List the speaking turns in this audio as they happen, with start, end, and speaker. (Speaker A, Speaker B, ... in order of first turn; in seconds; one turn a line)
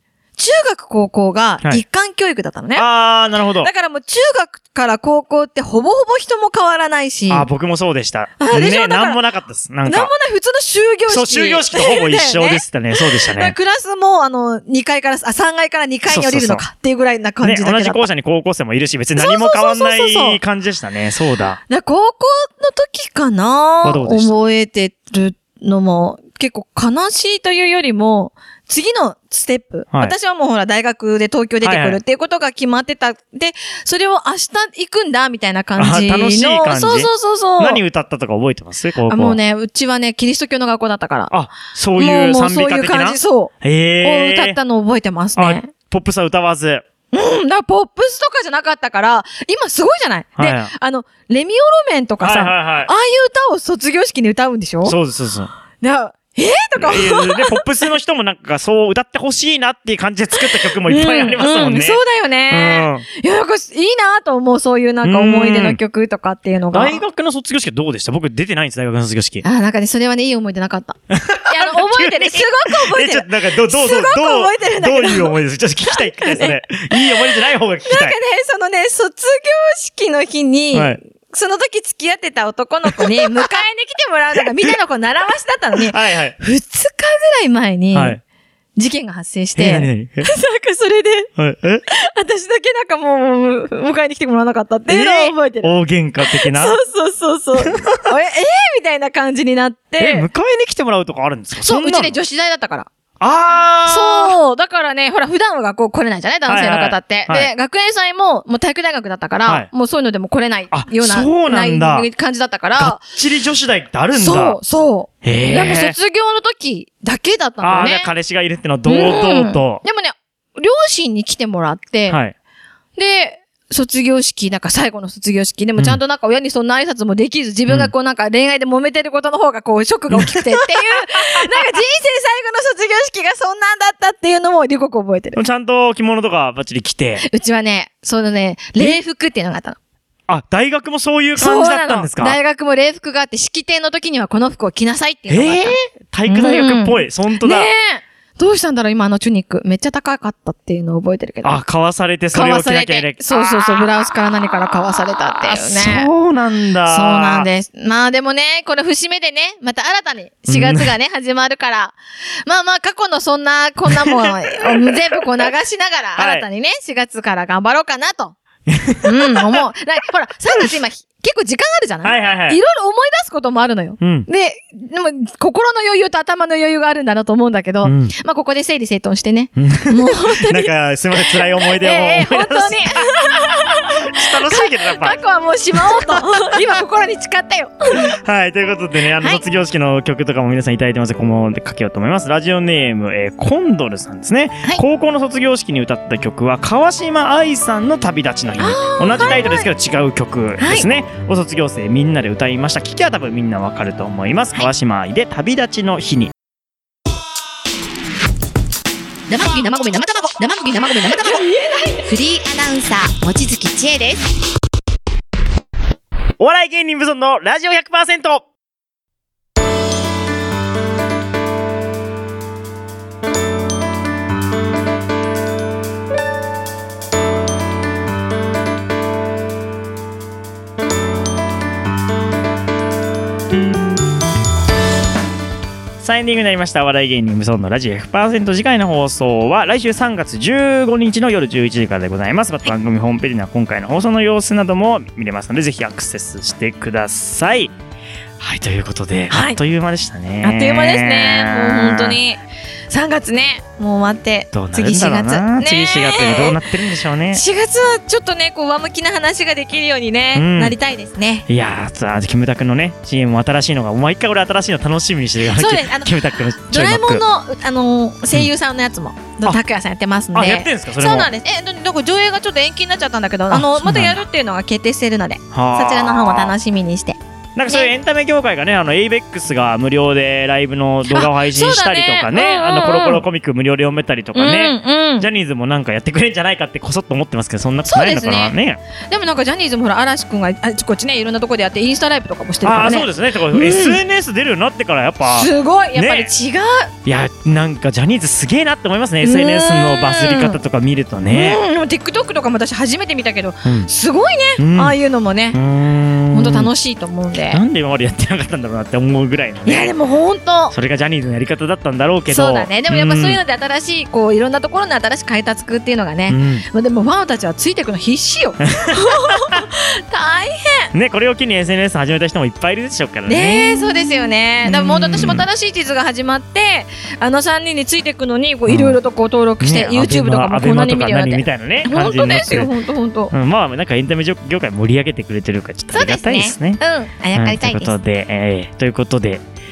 Speaker A: 0.4-2.9
Speaker B: 2.8-3.7
Speaker A: 3.6-7.5
Speaker B: 7.3-10.1
Speaker A: 8.4-9.2
Speaker A: 9.8-18.1
Speaker B: 11.1-13.5
Speaker B: 16.1-16.6
Speaker B: 17.4-21.6
Speaker A: 19.1-20.4
Speaker A: 21.7-37.8
Speaker B: 23.8-24.3
Speaker B: 31.6-32.0
Speaker B: 35.8-39.4
Speaker A: 39.1-41.3
Speaker B: 41.3-44.6
Speaker A: 42.0-45.7
Speaker B: 45.4-46.8
Speaker A: 47.1-54.9
Speaker B: 50.4-50.7
Speaker B: 52.2-52.9
Speaker B: 54.8-55.5
Speaker A: 55.8-57.6
Speaker B: 56.7-63.1
Speaker A: 60.4-67.0
Speaker B: 65.0-65.8
Speaker B: 66.7-69.4
Speaker A: 69.4-88.2
Speaker B: 71.1-78.2
Speaker B: 80.7-81.0
Speaker B: 82.9-83.4
Speaker B: 85.8-86.3
Speaker B: 87.9-88.2
Speaker A: 88.8-91.3
Speaker B: 89.6-90.3
Speaker B: 91.4-91.8
Speaker A: 91.9-100.3
Speaker B: 94.9-96.8
Speaker B: 97.6-98.1
Speaker B: 100.0-102.2
Speaker A: 101.6-102.9
Speaker B: 103.2-104.4
Speaker A: 103.9-113.0
Speaker B: 106.5-107.5
Speaker B: 110.7-112.1
Speaker B: 112.8-114.6
Speaker A: 114.2-118.1
Speaker B: 115.2-115.9
Speaker B: 117.6-119.8
Speaker A: 118.8-122.2
Speaker B: 122.1-122.3
Speaker A: 123.0-135.4
Speaker B: 127.7-127.9
Speaker B: 130.1-131.6
Speaker B: 135.3-137.2
Speaker A: 137.2-139.8
Speaker B: 140.3-142.4
Speaker A: 141.4-145.7
Speaker B: 145.3-147.7
Speaker A: 146.3-151.6
Speaker B: 151.4-154.2
Speaker A: 152.3-156.1
Speaker B: 154.9-157.5
Speaker A: 156.9-168.4
Speaker B: 160.5-160.9
Speaker B: 163.9-165.4
Speaker B: 166.2-166.4
Speaker B: 168.7-169.6
Speaker A: 169.0-188.2
Speaker B: 172.0-172.6
Speaker B: 174.0-174.3
Speaker B: 177.8-178.1
Speaker B: 179.6-185.2
Speaker B: 185.8-186.6
Speaker B: 188.0-206.3
Speaker A: 198.6-199.7
Speaker A: 200.6-200.9
Speaker C: 209.3-211.5
Speaker A: 211.7-212.0
Speaker C: 212.1-214.3
Speaker B: 216.4-218.4
Speaker B: 236.0-247.7
Speaker B: 248.4-252.2
Speaker A: 249.3-249.6
Speaker A: 250.4-256.6
Speaker B: 254.5-257.4
Speaker A: 257.3-261.4
Speaker B: 260.3-260.7
Speaker B: 261.5-267.2
Speaker A: 265.4-277.9
Speaker B: 270.3-271.3
Speaker B: 273.5-274.2
Speaker B: 275.5-276.5
Speaker B: 277.6-288.8
Speaker A: 281.1-283.2
Speaker A: 284.4-285.3
Speaker A: 287.9-288.5
Speaker A: 289.1-294.0
Speaker B: 292.6-296.3
Speaker A: 295.2-296.9
Speaker B: 297.1-301.6
Speaker A: 299.2-300.6
Speaker A: 301.3-305.6
Speaker B: 304.6-304.9
Speaker B: 305.5-306.7
Speaker A: 306.3-307.6
Speaker B: 307.5-309.9
Speaker A: 309.6-310.7
Speaker B: 310.7-313.4
Speaker A: 312.3-320.9
Speaker B: 316.3-316.6
Speaker B: 318.6-319.6
Speaker B: 320.9-324.1
Speaker A: 323.3-333.3
Speaker B: 324.6-325.4
Speaker B: 328.7-329.0
Speaker B: 329.6-332.7
Speaker B: 333.3-336.8
Speaker A: 335.9-337.9
Speaker B: 337.3-339.4